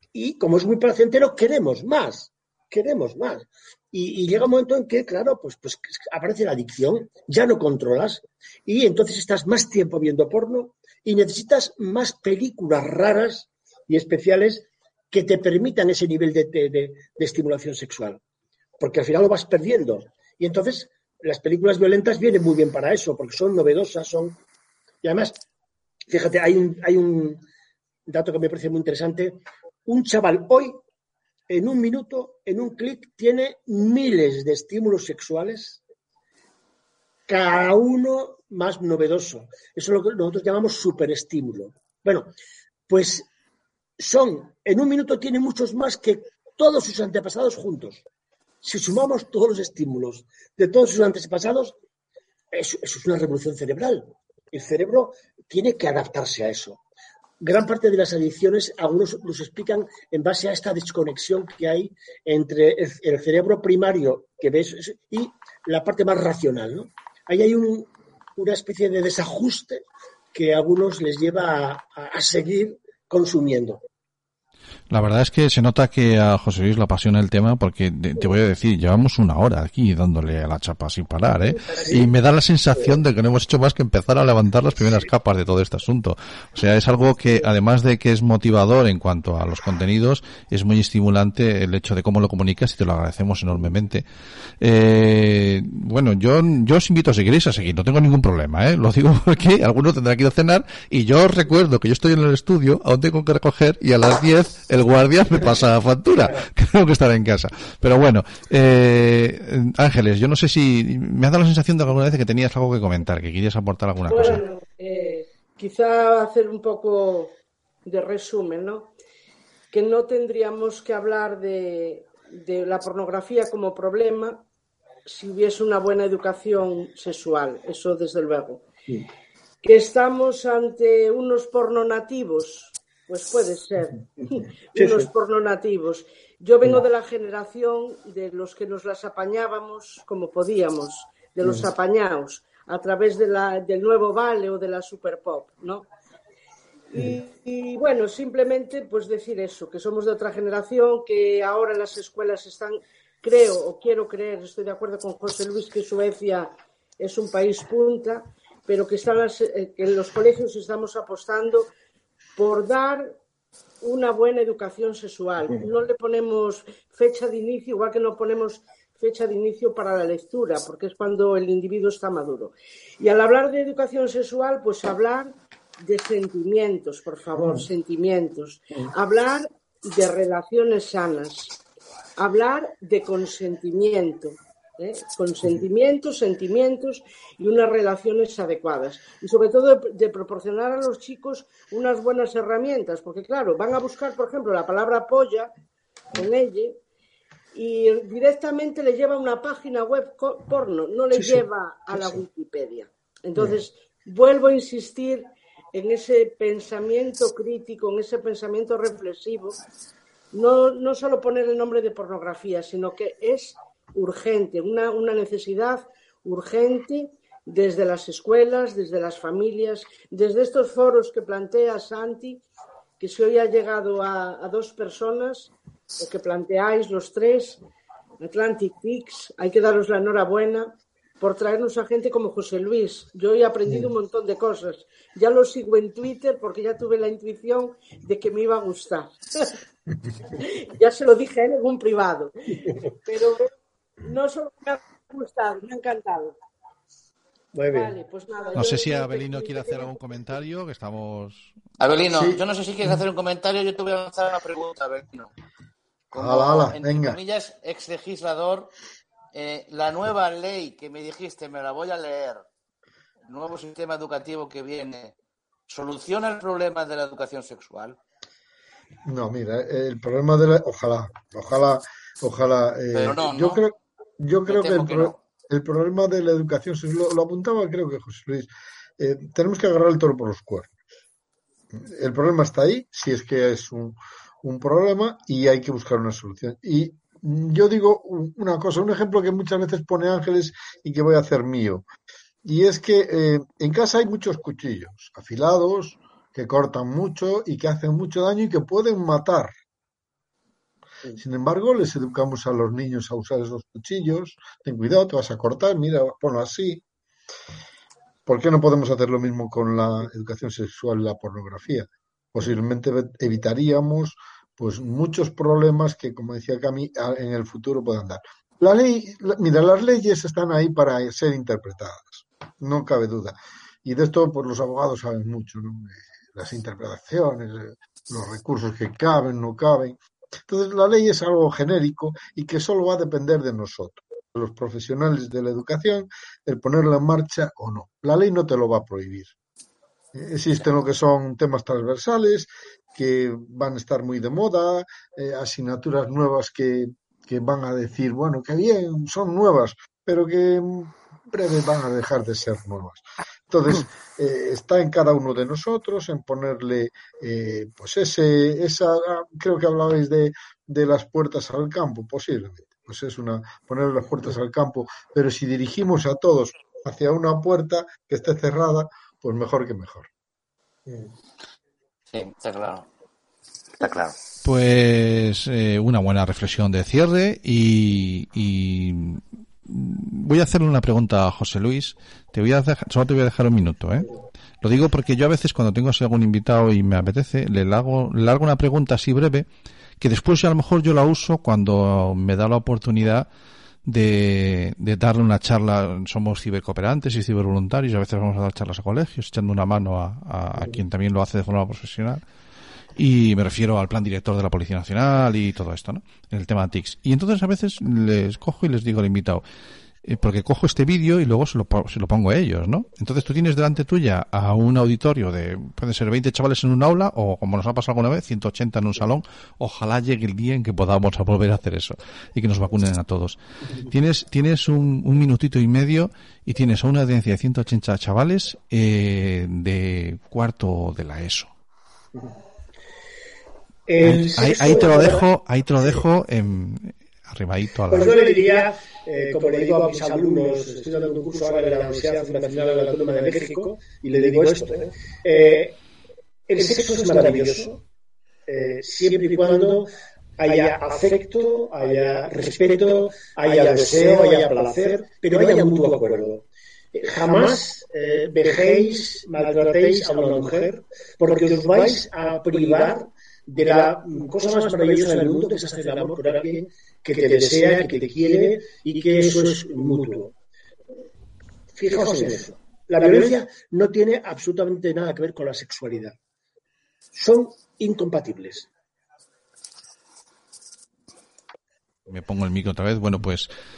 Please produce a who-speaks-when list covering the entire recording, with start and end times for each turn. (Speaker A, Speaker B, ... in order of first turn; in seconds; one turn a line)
Speaker A: 0.1-18.2
Speaker A: 18.8-24.4
Speaker A: 25.0-25.4
Speaker A: 26.1-27.4
Speaker A: 28.1-30.8
Speaker A: 31.5-35.8
Speaker A: 37.3-42.3
Speaker A: 42.9-43.3
Speaker A: 44.0-48.0
Speaker A: 48.6-51.8
Speaker A: 52.5-56.8
Speaker A: 57.4-73.8
Speaker B: 74.9-94.0
Speaker B: 94.6-114.4
Speaker C: 114.1-117.3
Speaker C: 117.9-118.9
Speaker C: 119.7-124.4
Speaker C: 125.1-128.7
Speaker C: 129.6-145.9
Speaker A: 134.8-135.1
Speaker C: 146.9-161.7
Speaker C: 162.4-163.2
Speaker C: 163.8-181.6
Speaker A: 177.4-177.7
Speaker C: 182.2-195.5
Speaker C: 196.1-196.8
Speaker C: 197.5-209.6
Speaker A: 201.2-202.2
Speaker C: 210.3-222.4
Speaker C: 223.0-227.6
Speaker C: 228.2-239.6
Speaker C: 240.3-243.5
Speaker C: 244.0-246.4
Speaker A: 247.6-247.9
Speaker C: 247.7-250.3
Speaker B: 248.5-251.5
Speaker D: 251.8-255.3
Speaker E: 252.1-252.4
Speaker E: 256.1-257.2
Speaker D: 256.1-258.7
Speaker D: 259.3-262.4
Speaker D: 263.3-265.1
Speaker D: 265.7-268.0
Speaker E: 269.1-280.7
Speaker D: 272.9-273.6
Speaker D: 274.5-275.2
Speaker E: 281.8-291.9
Speaker E: 292.4-299.5
Speaker E: 301.2-306.8
Speaker E: 308.3-339.3
Speaker E: 340.1-370.1
Speaker D: 372.1-372.9
Speaker D: 373.8-374.1
Speaker B: 374.4-384.1
Speaker B: 384.6-389.4
Speaker B: 390.0-393.3
Speaker B: 393.9-402.2
Speaker B: 403.0-409.4
Speaker B: 410.1-431.5
Speaker A: 433.9-435.3
Speaker B: 434.0-438.1
Speaker A: 437.9-445.8
Speaker A: 446.5-447.8
Speaker A: 448.5-449.9
Speaker A: 450.4-456.4
Speaker A: 456.9-470.3
Speaker A: 471.8-476.1
Speaker A: 477.1-478.7
Speaker B: 482.1-483.5